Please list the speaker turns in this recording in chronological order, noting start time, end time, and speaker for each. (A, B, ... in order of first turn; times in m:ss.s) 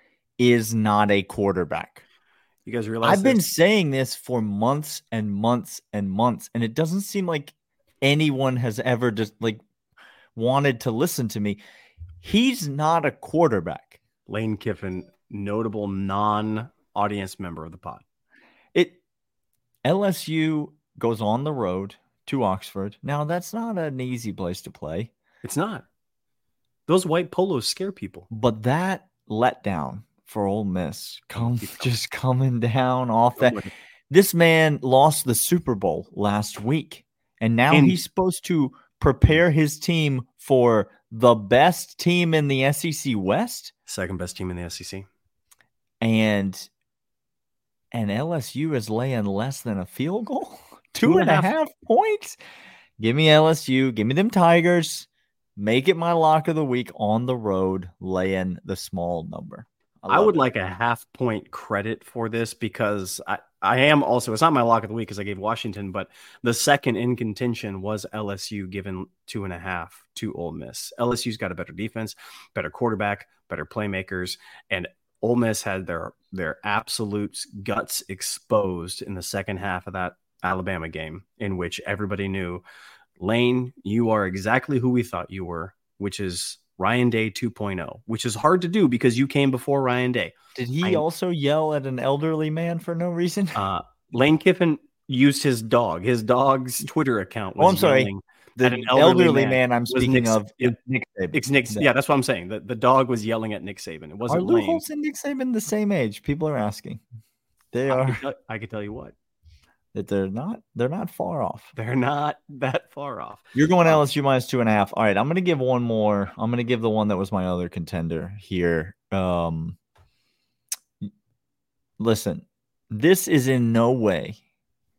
0:00.4-0:02.0 A
0:02.6-0:03.4 B
0:03.0-0:09.6 A
0:10.3-0:11.6 A
0:12.2-0:14.0 A
0:14.3-0:18.0 B
0:18.7-0:19.0 A
0:19.8-0:25.1 A
0:25.4-0:25.8 B
0:26.9-0:28.3 B
0:28.3-0:33.6 A
0:31.3-0:31.9 B
0:33.3-0:33.7 B
0:34.1-0:43.7 A
0:37.7-0:38.0 B
0:43.9-0:45.1 B
0:46.0-0:46.7 A
0:47.9-0:52.4 A
0:51.0-0:51.5 B
0:53.0-1:00.5 A
1:00.1-1:22.6 B
1:23.2-1:31.0 B
1:30.5-1:33.6 A
1:33.6-1:40.8 B
1:37.6-1:41.9 A
1:41.3-1:44.8 B
1:44.3-1:47.0 A
1:47.7-1:48.2 A
1:47.9-1:49.1 B
1:49.9-1:51.7 A
1:51.7-1:54.0 B
1:53.5-1:59.8 A
2:02.0-2:04.4 A